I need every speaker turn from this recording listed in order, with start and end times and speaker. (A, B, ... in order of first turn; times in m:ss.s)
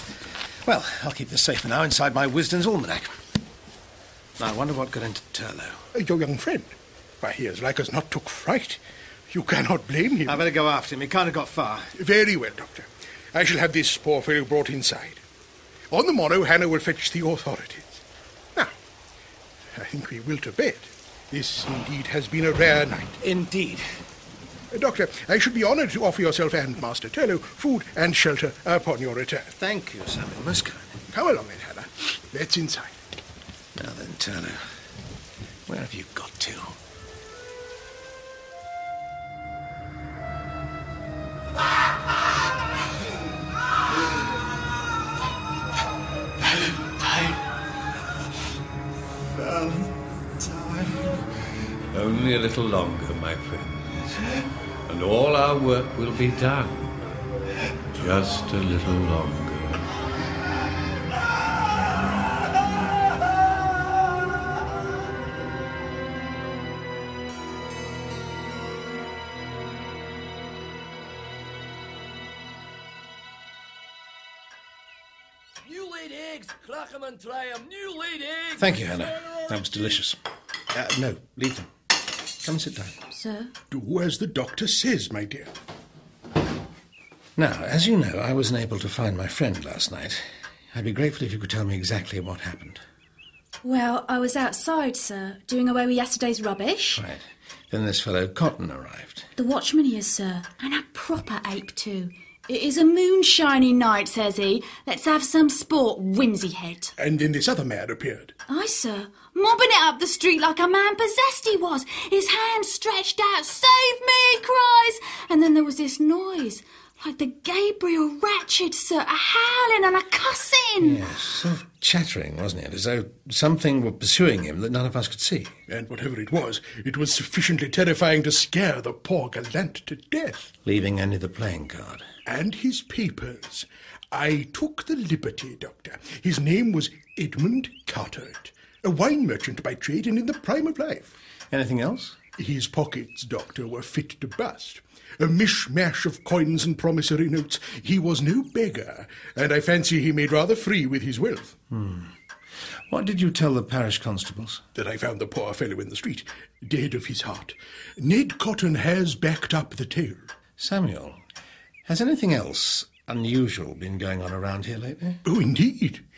0:00.6-0:03.2 A
0:04.4-0:05.8 A
0:05.9-0:10.5 B
0:10.2-0:11.9 A
0:11.9-0:15.2 B
0:15.9-0:18.0 B
0:19.7-0:23.2 B
0:23.2-0:23.8 A
0:24.7-0:29.5 B
0:29.5-0:31.0 A
0:31.1-0:33.0 B
0:33.8-0:34.6 A
0:35.7-0:36.8 A
0:51.9-0:56.9 C
0:57.9-0:59.8 C
1:15.7-1:18.6 D
1:18.6-1:20.2 A
1:20.7-1:21.7 A
1:22.4-1:23.0 A
1:23.1-1:23.5 E
1:23.7-1:25.5 B
1:27.4-1:32.8 A
1:33.6-1:37.0 E
1:37.0-1:39.3 A
1:39.4-1:46.9 E
1:47.0-1:48.3 B
1:48.5-2:01.0 E
2:00.8-2:05.5 A
2:05.7-2:10.5 B
2:10.6-2:12.0 A
2:12.2-2:21.1 B
2:21.5-2:22.2 A
2:22.4-2:31.6 B
2:31.7-2:32.1 A
2:32.9-2:34.6 A
2:34.7-2:40.3 B
2:40.6-2:41.2 A
2:41.8-2:45.2 A
2:45.2-2:46.0 B